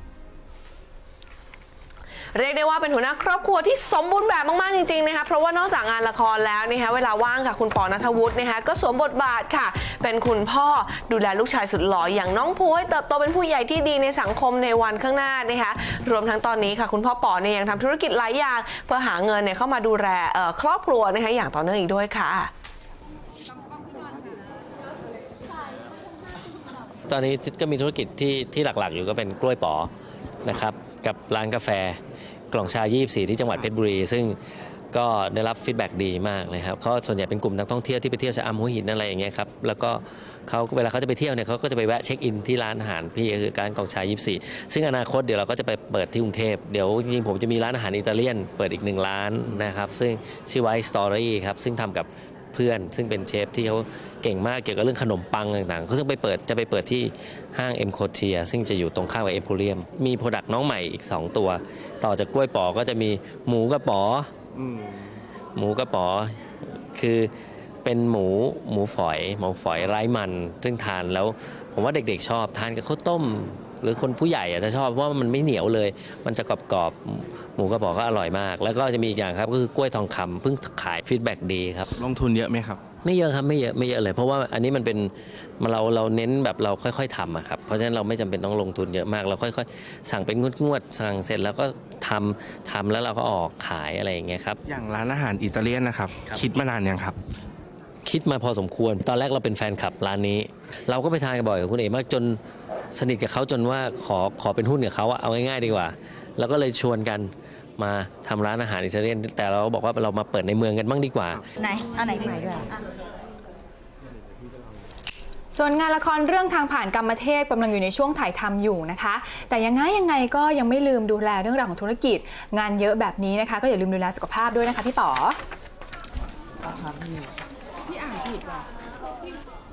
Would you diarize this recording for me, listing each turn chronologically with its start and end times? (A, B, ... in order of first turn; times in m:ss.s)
0:02.3-0:22.5 A
0:27.1-0:29.9 B
0:30.4-0:32.0 B
0:32.5-0:34.4 B
0:34.9-1:04.3 B
1:04.6-1:05.1 C
1:05.6-1:07.3 B
1:07.8-1:21.9 B
1:22.0-1:22.8 C
1:23.0-1:34.6 B
1:34.7-1:37.2 C
1:38.0-1:42.4 B
1:43.0-1:51.4 B
1:51.6-1:52.8 D
1:55.5-2:05.4 E
2:06.6-2:07.3 D
2:07.9-2:08.6 D